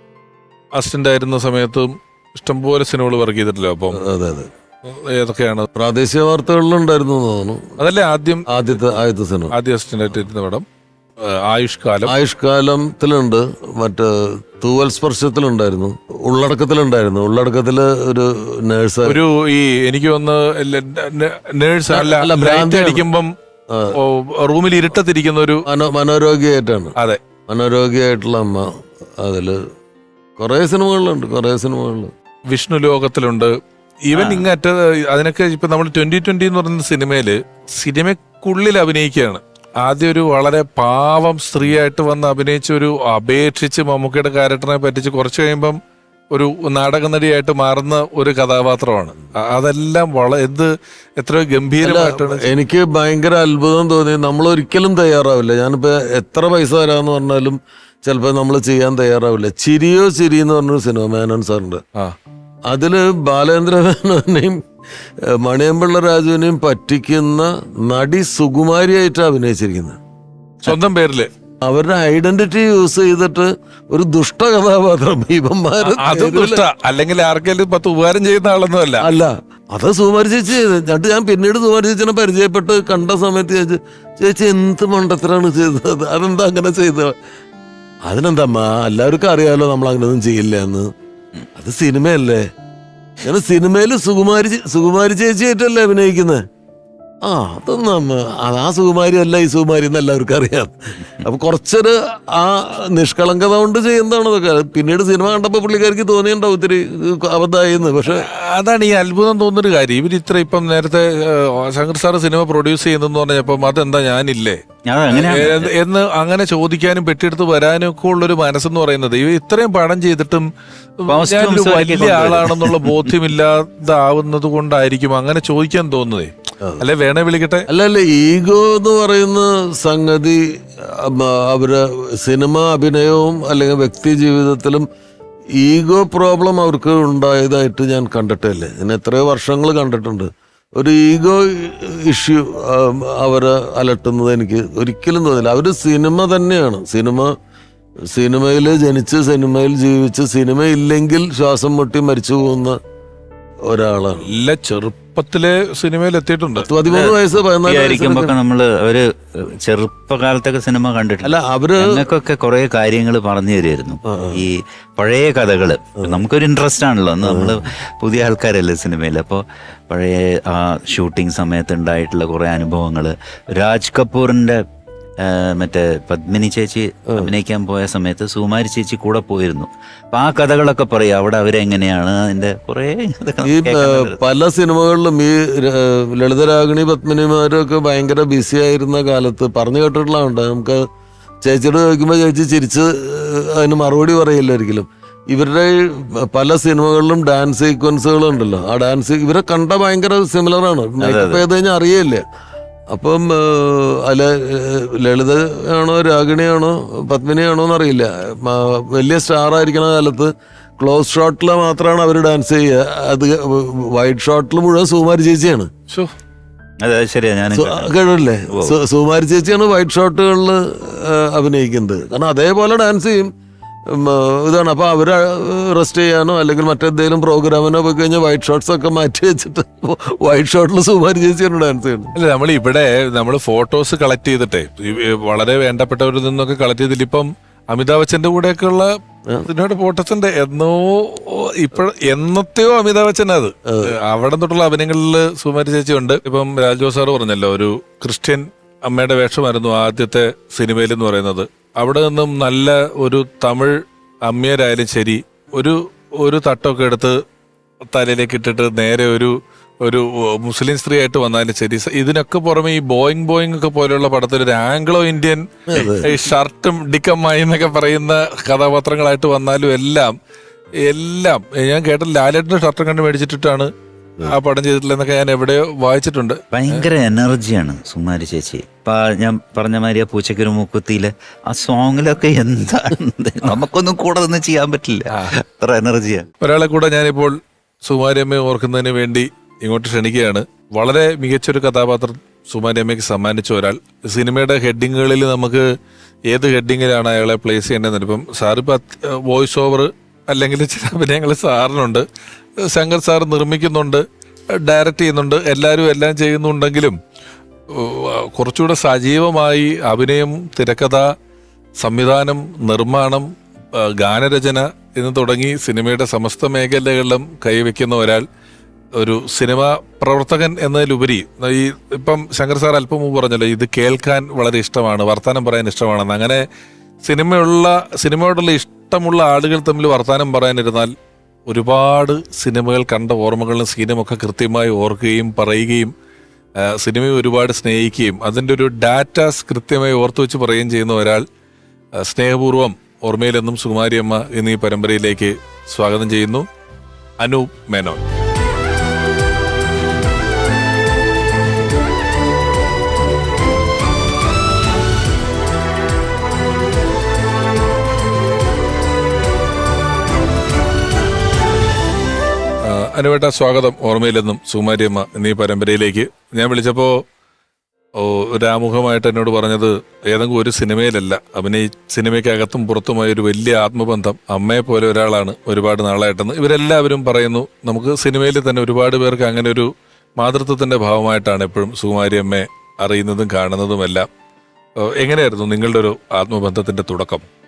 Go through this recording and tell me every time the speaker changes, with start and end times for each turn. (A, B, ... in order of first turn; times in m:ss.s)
0:00.8-0:04.0 A
0:04.0-0:04.5 B
0:04.8-0:05.7 A
0:05.8-0:07.8 B
0:07.8-0:08.4 A
0:08.5-0:09.5 B
0:09.5-0:10.6 A
0:11.2-0:12.1 A
0:12.1-0:19.2 B
0:19.1-0:23.3 A
0:21.9-0:23.0 B
0:23.7-0:24.0 B
0:23.9-0:25.6 A
0:25.7-0:26.9 B
0:27.5-0:29.6 B
0:30.4-0:32.1 B
0:32.5-0:33.5 A
0:34.1-0:45.8 A
0:46.3-0:52.5 A
0:51.8-1:01.8 B
1:02.7-1:04.6 B
1:05.3-1:10.0 B
1:10.6-1:11.3 A
1:11.6-1:16.6 B
1:15.9-1:19.1 A
1:19.0-1:27.2 B
1:28.0-1:30.9 B
1:31.6-1:32.5 B
1:33.2-1:36.4 B
1:37.2-1:48.2 B
1:48.1-2:00.5 A
1:54.8-1:55.7 C
2:01.0-2:07.7 A
2:01.1-2:03.1 C
2:07.7-2:14.9 B
2:15.6-2:27.3 B
2:28.1-2:32.8 B
2:33.7-2:34.3 B
2:34.3-2:36.7 A
2:36.6-2:38.3 B
2:36.9-2:37.2 C
2:37.7-2:54.6 C
2:41.2-2:41.9 B
2:44.1-2:44.4 B
2:47.2-2:47.6 B
2:55.2-3:04.2 C
3:03.5-3:10.8 B
3:11.4-3:22.2 B
3:21.0-3:21.4 C
3:22.9-3:35.7 B
3:36.8-3:37.9 C
3:37.6-3:43.3 B
3:43.9-3:52.1 B
3:52.2-3:58.9 A
3:59.4-4:13.8 A
4:14.3-4:17.2 A
4:17.9-4:30.1 A
4:25.7-4:26.1 B
4:30.8-4:33.7 A
4:34.2-4:36.4 A
4:36.5-4:46.3 C
4:46.4-4:55.6 A
4:56.3-5:02.0 A
5:02.6-5:04.0 A
5:04.6-5:07.0 A
5:07.8-5:11.0 A
5:11.8-5:18.2 A
5:19.0-5:26.4 A
5:27.0-5:30.9 A
5:31.5-5:35.9 A
5:36.6-5:41.2 A
5:42.0-5:46.5 A
5:47.2-5:48.0 A
6:02.6-6:07.0 A
6:08.0-6:24.1 A
6:24.8-6:27.2 A